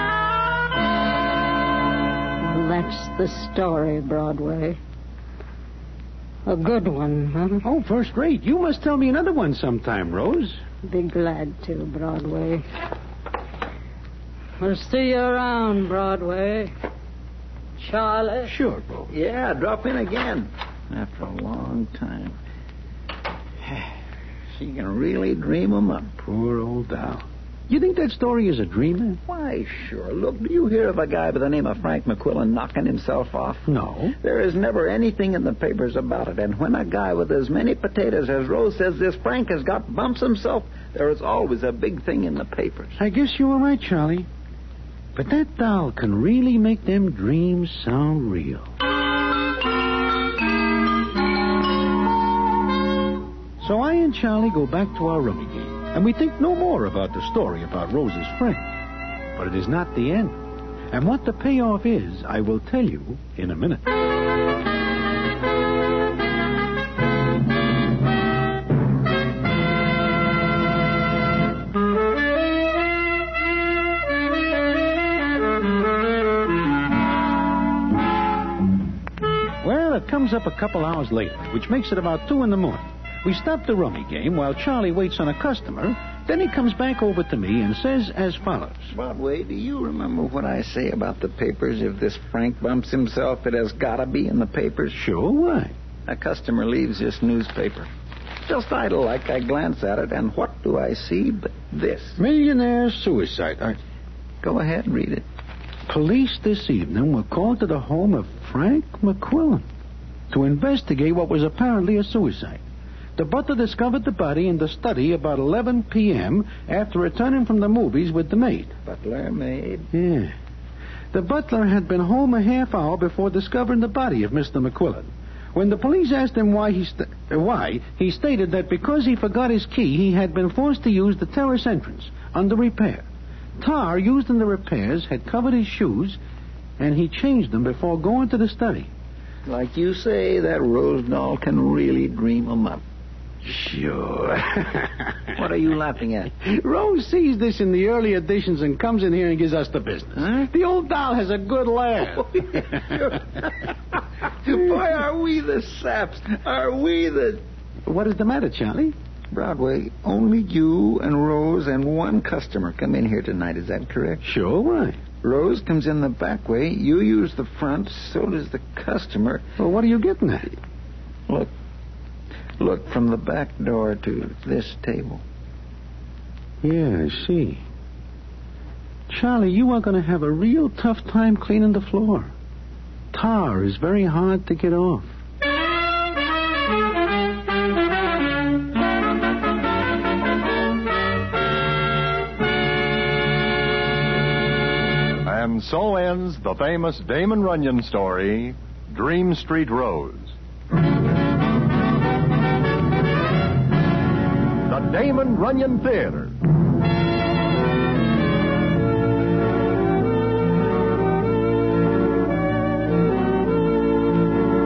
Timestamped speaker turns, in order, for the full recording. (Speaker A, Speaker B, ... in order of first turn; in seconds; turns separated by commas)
Speaker A: 2.4-4.8, Speaker A: 6.5-7.7, Speaker B: 7.6-10.6, Speaker A: 10.8-12.7, Speaker A: 14.6-16.7, Speaker A: 17.8-18.5, Speaker B: 18.4-19.1, Speaker C: 19.1-22.4, Speaker C: 23.6-23.9, Speaker C: 24.5-26.1, Speaker B: 26.2-29.2, Speaker C: 29.2-33.7, Speaker B: 33.7-34.1, Speaker C: 34.2-42.9, Speaker B: 43.0-44.3, Speaker B: 45.1-48.7, Speaker B: 53.6-58.7, Speaker B: 59.3-60.4, Speaker B: 60.9-63.8, Speaker B: 79.6-88.9, Speaker C: 88.9-95.0, Speaker B: 94.9-95.7, Speaker C: 96.0-97.9, Speaker C: 98.4-102.2, Speaker B: 102.2-103.8, Speaker C: 104.4-105.2, Speaker B: 105.9-109.7, Speaker B: 110.3-112.6, Speaker B: 113.2-118.7, Speaker C: 118.8-119.9, Speaker B: 119.9-120.3, Speaker B: 121.1-133.1, Speaker B: 133.6-136.2, Speaker B: 136.8-138.9, Speaker C: 139.4-142.8, Speaker B: 143.4-145.1, Speaker C: 145.3-146.3, Speaker B: 146.4-152.9, Speaker C: 150.2-150.5, Speaker C: 152.2-153.6, Speaker C: 154.4-157.4, Speaker B: 157.8-158.9, Speaker C: 159.3-164.2, Speaker B: 164.2-165.0, Speaker C: 165.2-169.4, Speaker B: 169.6-170.5, Speaker C: 172.6-175.2, Speaker B: 176.6-177.6, Speaker B: 179.1-182.3, Speaker B: 183.1-185.1, Speaker D: 195.2-200.3, Speaker D: 204.7-206.3